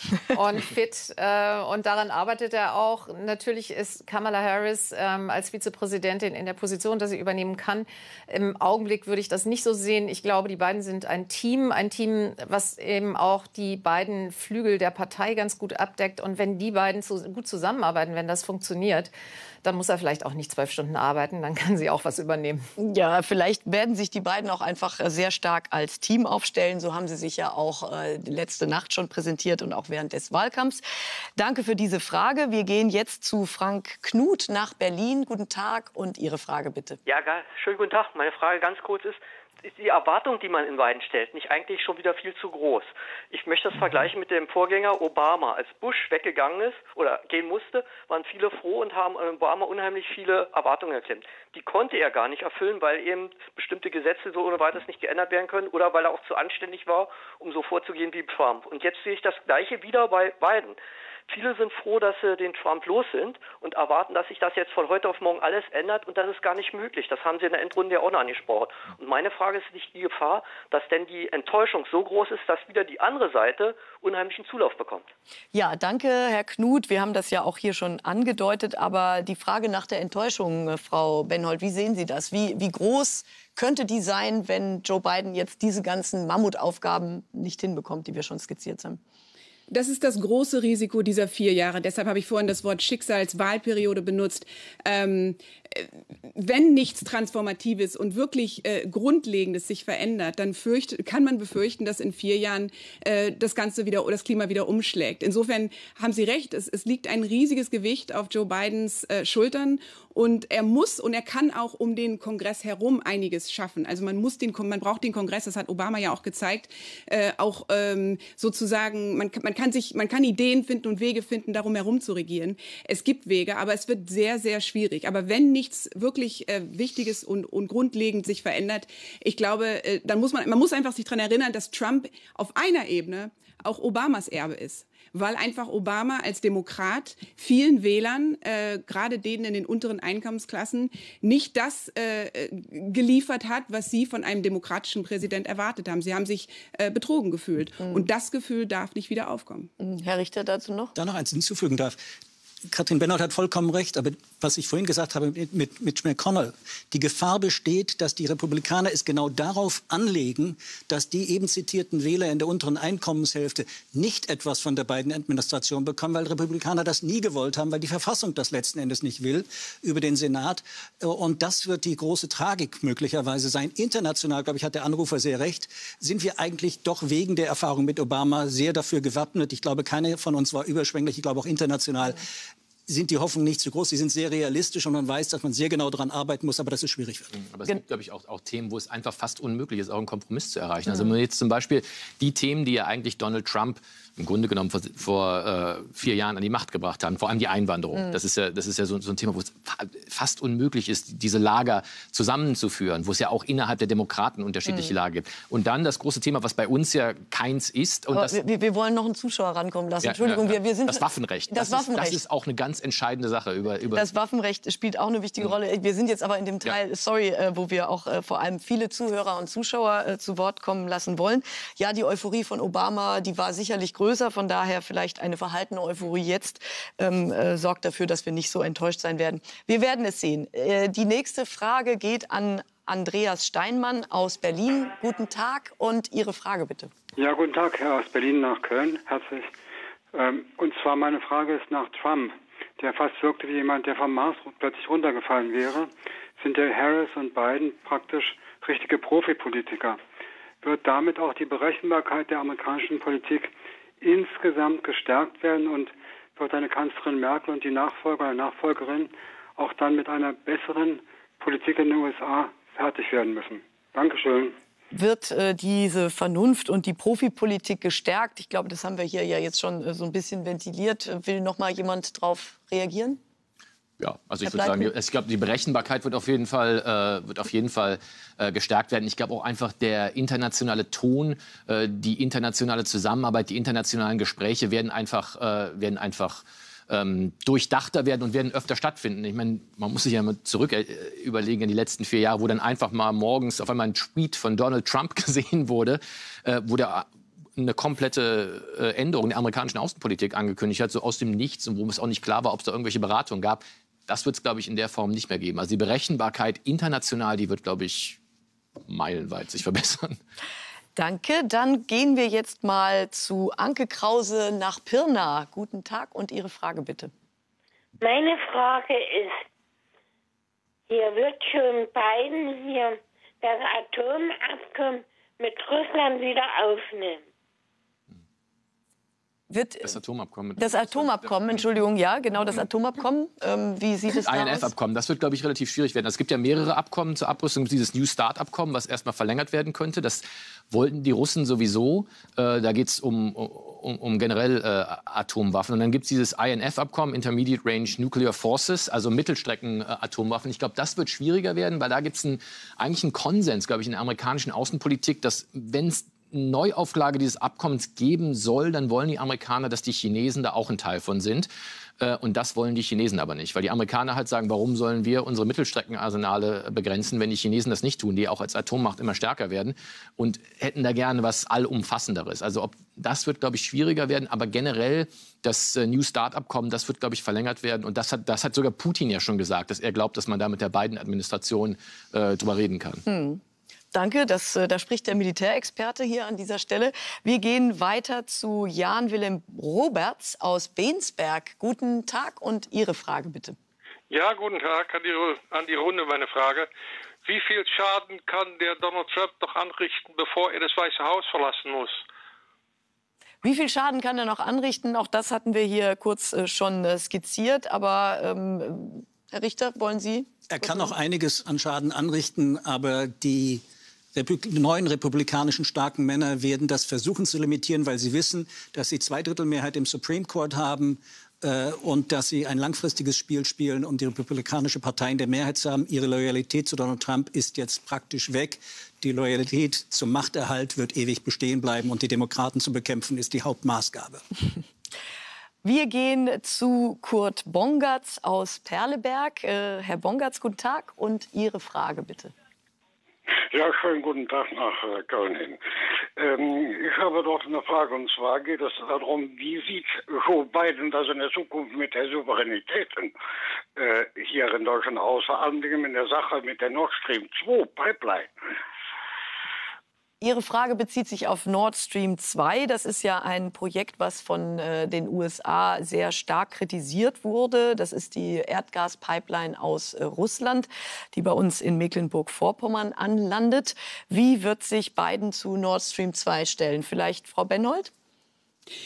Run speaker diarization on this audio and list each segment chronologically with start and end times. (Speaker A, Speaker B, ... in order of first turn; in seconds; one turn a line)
Speaker A: 0.3-19.1
Speaker A: 19.6-22.6
Speaker B: 22.8-30.9
Speaker B: 31.4-37.0
Speaker C: 37.1-60.8
Speaker C: 61.3-75.1
Speaker B: 75.5-89.0
Speaker D: 89.7-149.7
Speaker B: 147.8-148.1
Speaker B: 149.8-150.9
Speaker E: 150.9-152.0
Speaker E: 152.7-182.3
Speaker E: 182.9-187.3
Speaker F: 187.3-208.4
Speaker B: 204.7-204.9
Speaker B: 208.1-212.2
Speaker F: 210.0-214.1
Speaker B: 213.9-236.9
Speaker G: 237.2-239.6
Speaker G: 240.1-250.0
Speaker G: 250.6-264.6
Speaker B: 264.9-273.2
Speaker F: 274.0-308.2
Speaker B: 274.4-274.9
Speaker F: 308.9-310.2
Speaker B: 311.0-317.1
Speaker H: 318.0-319.4
Speaker H: 320.9-327.2
Speaker B: 329.5-329.9
Speaker F: 329.8-331.6
Speaker B: 330.6-334.7
Speaker F: 334.2-361.5
Speaker F: 362.0-383.0
Speaker B: 383.1-383.4
Speaker B: 383.9-393.6
Speaker I: 394.1-396.7
Speaker I: 397.2-402.0
Speaker B: 403.4-410.9
Speaker E: 410.5-413.6
Speaker E: 414.1-434.2
Speaker B: 435.6-442.3
Speaker J: 443.5-445.6
Speaker J: 446.2-453.1
Speaker J: 453.8-458.3
Speaker B: 460.2-477.9